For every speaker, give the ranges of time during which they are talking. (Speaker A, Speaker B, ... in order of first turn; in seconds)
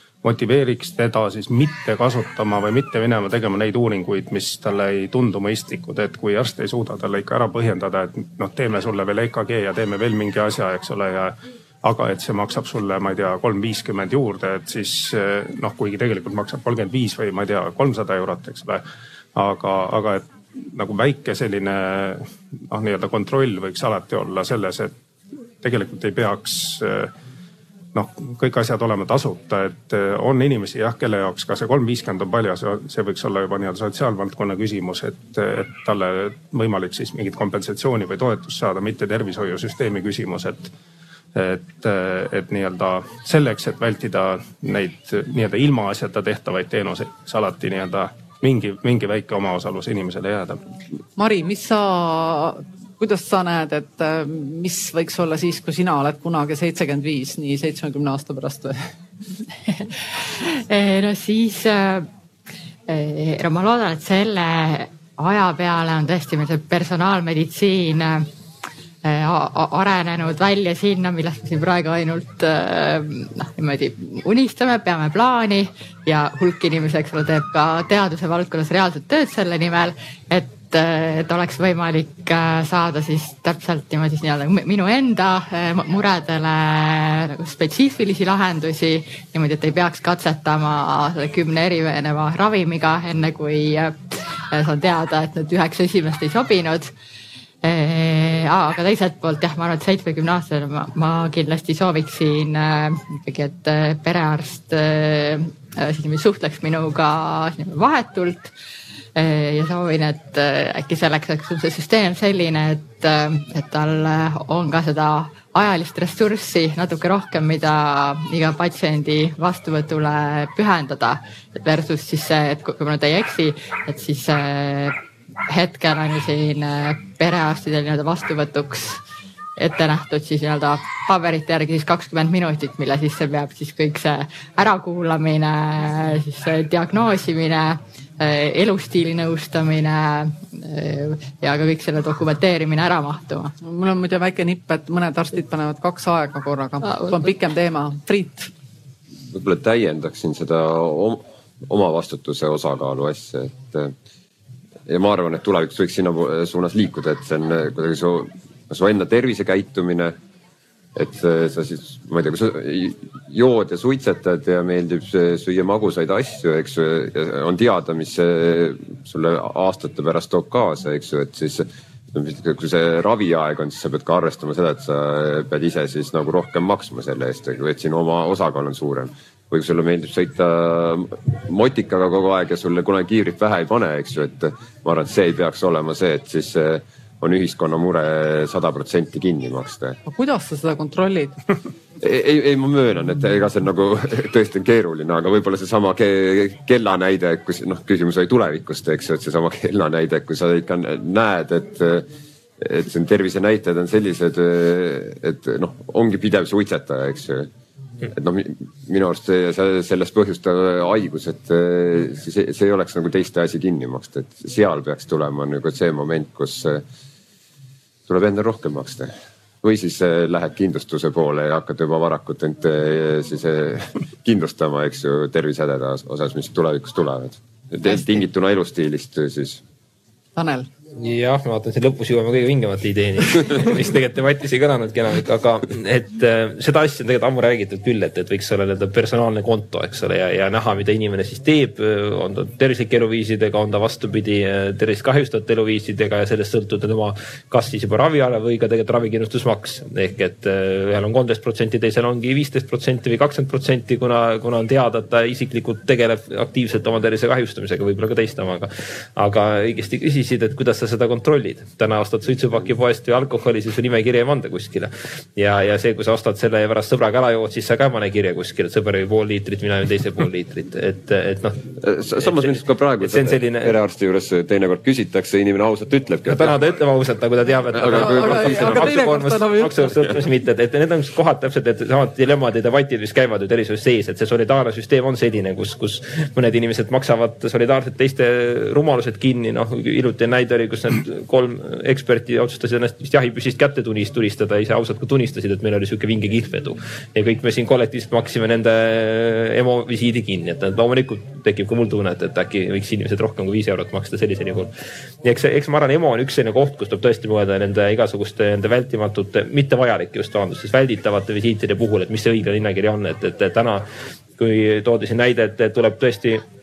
Speaker A: 0.2-18.8, 19.3-24.9, 25.6-27.1, 27.9-40.7, 41.3-50.6
Speaker B: 51.2-58.9, 143.6-148.5, 190.1-191.4, 230.3-230.7, 277.9-279.8
Speaker C: 59.7-62.1, 62.9-68.3, 69.0-96.9, 97.6-108.5, 109.2-125.0, 125.5-129.0, 129.6-143.5, 146.8-147.3
Speaker D: 149.3-153.9, 154.9-160.2, 160.9-190.0, 192.0-202.1, 202.6-207.5, 208.1-216.8, 218.1-219.1, 219.6-229.6, 271.8-276.6, 277.7-279.1
Speaker E: 231.0-273.7, 276.3-304.7, 305.2-316.4